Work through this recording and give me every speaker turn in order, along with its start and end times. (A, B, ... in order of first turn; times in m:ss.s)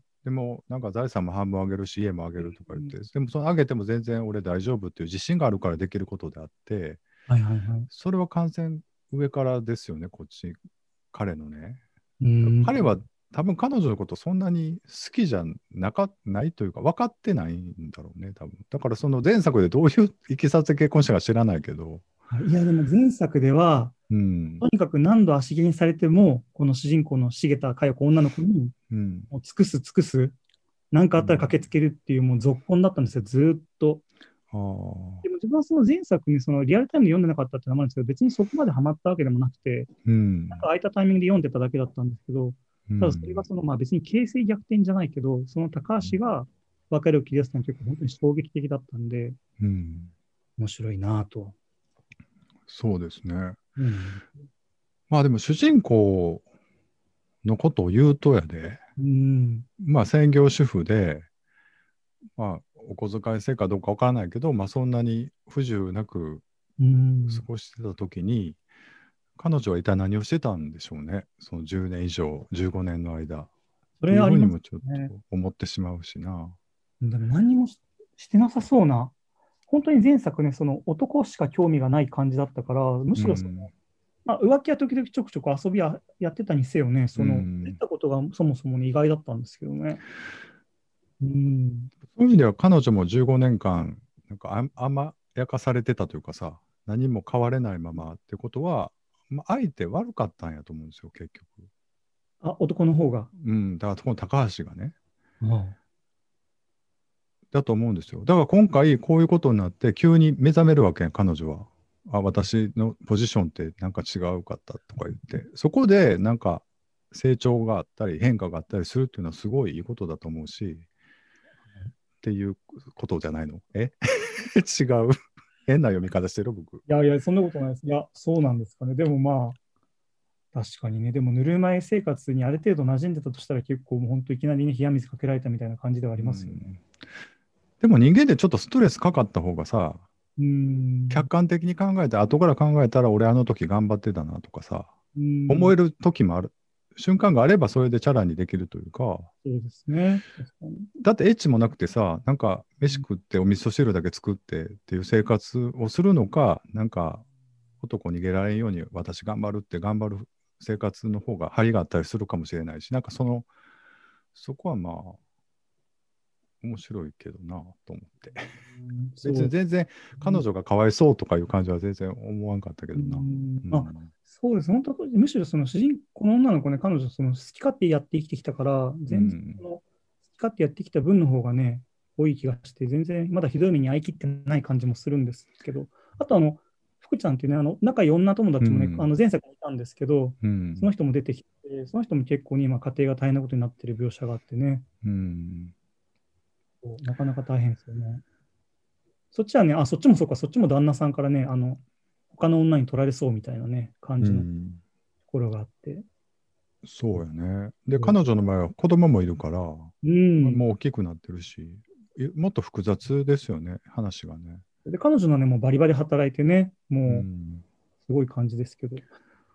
0:00.2-0:07.0 A
0:02.4-0:02.9 B
0:07.3-0:07.9 B
0:07.9-0:10.6 A
0:11.1-0:11.8 A
0:12.2-0:12.8 B
0:12.4-0:22.0 A
0:22.3-0:24.0 B
0:24.1-0:24.6 A
0:24.6-0:28.8 B
0:28.9-0:29.3 A
0:29.3-0:30.4 B
0:30.9-0:34.0 B
0:31.2-0:31.5 A
0:34.5-0:35.2 A
0:35.2-0:39.9 B
0:40.0-0:40.7 A
0:40.5-0:49.4 B
0:42.9-0:43.4 A
0:49.6-0:50.1 A
0:50.6-0:51.6 B
0:52.7-0:53.6 A
0:53.8-0:54.3 B
0:55.1-0:56.4 A
0:57.4-0:58.8 A
0:59.0-0:59.7 B
0:59.8-1:01.3 A
1:02.4-1:06.4 A
1:06.8-1:07.4 B
1:07.3-1:08.6 A
1:09.4-1:13.5 A
1:14.0-1:15.1 B
1:14.0-1:16.6 A
1:17.0-1:19.1 B
1:19.7-1:23.7 B
1:23.2-1:23.7 A
1:24.3-1:30.0 B
1:27.2-1:27.8 A
1:31.2-1:31.9 B
1:32.1-1:41.7 A
1:42.4-1:43.3 B
1:43.4-1:45.0 A
1:45.4-1:45.8 B
1:47.5-2:00.9 A
2:02.2-2:06.8 A
2:06.9-2:09.6 B
2:10.5-2:16.6 B
2:16.2-2:16.9 A
2:17.8-2:20.0 A
2:20.4-2:21.3 B
2:21.1-2:24.9 A
2:25.1-2:25.8 B
2:25.5-2:29.3 A
2:29.4-2:30.9 B
2:31.0-2:37.3 A
2:37.8-2:43.5 A
2:44.3-2:45.2 A
2:46.6-2:48.6 A
2:48.7-2:49.5 B
2:49.2-2:54.1 A
2:50.2-2:50.4 B
2:53.0-2:59.8 B
2:59.1-2:59.6 A
3:00.3-3:14.8 B
3:08.6-3:09.1 A
3:10.4-3:10.9 A
3:15.0-3:15.7 A
3:16.8-3:18.2 B
3:19.3-3:21.8 B
3:22.3-3:24.5 B
3:24.2-3:24.8 A
3:25.3-3:26.0 B
3:26.8-3:34.6 A
3:30.0-3:30.6 B
3:34.9-3:37.3 B
3:37.1-3:37.6 A
3:38.0-3:39.1 B